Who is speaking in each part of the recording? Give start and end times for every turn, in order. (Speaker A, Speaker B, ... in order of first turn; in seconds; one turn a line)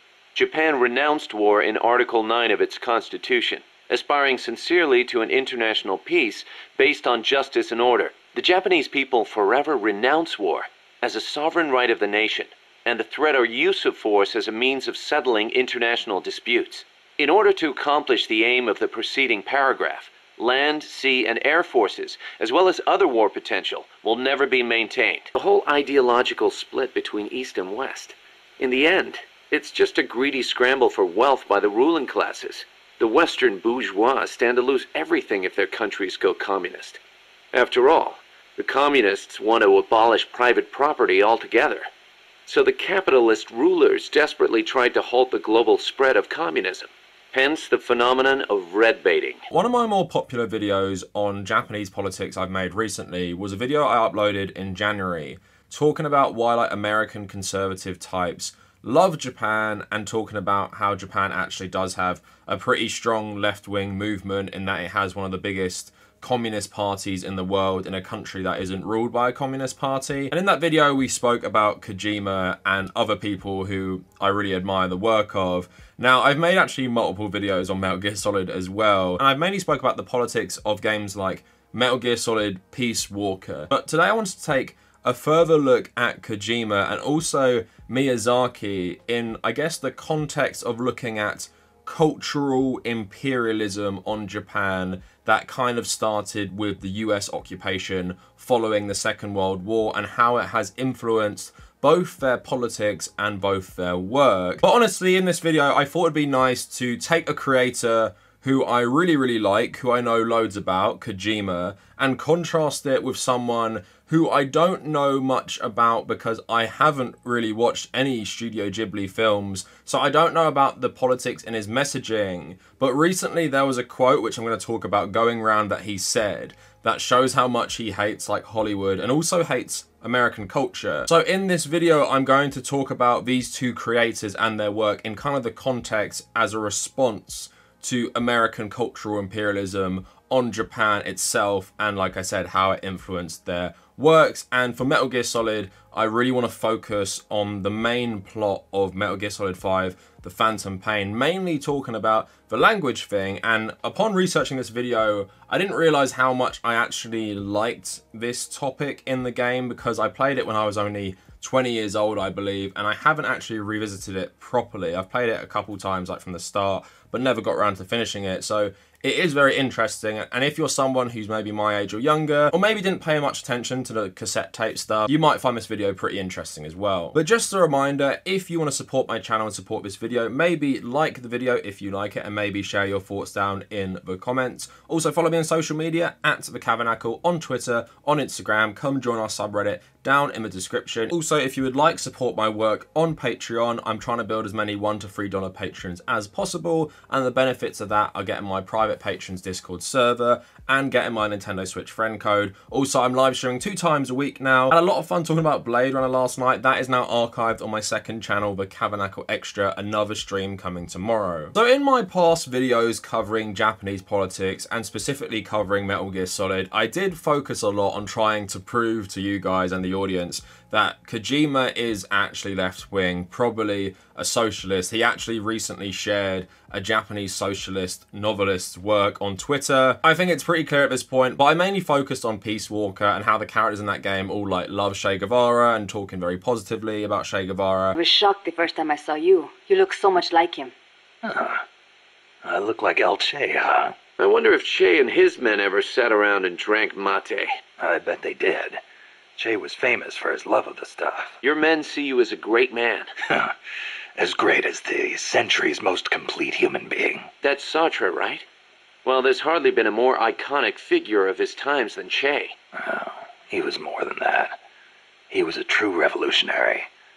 Speaker A: 0.3-37.0
Speaker A: 37.5-41.9
Speaker A: 42.5-49.4
Speaker B: 49.5-237.9
Speaker C: 237.9-240.7
Speaker D: 241.2-241.6
Speaker D: 242.4-243.9
Speaker A: 244.2-247.5
Speaker D: 247.8-248.8
Speaker D: 249.4-251.3
Speaker A: 251.4-253.1
Speaker D: 253.3-253.5
Speaker D: 254.2-257.3
Speaker A: 257.4-258.4
Speaker A: 259.0-262.5
Speaker D: 262.7-264.6
Speaker D: 265.3-266.9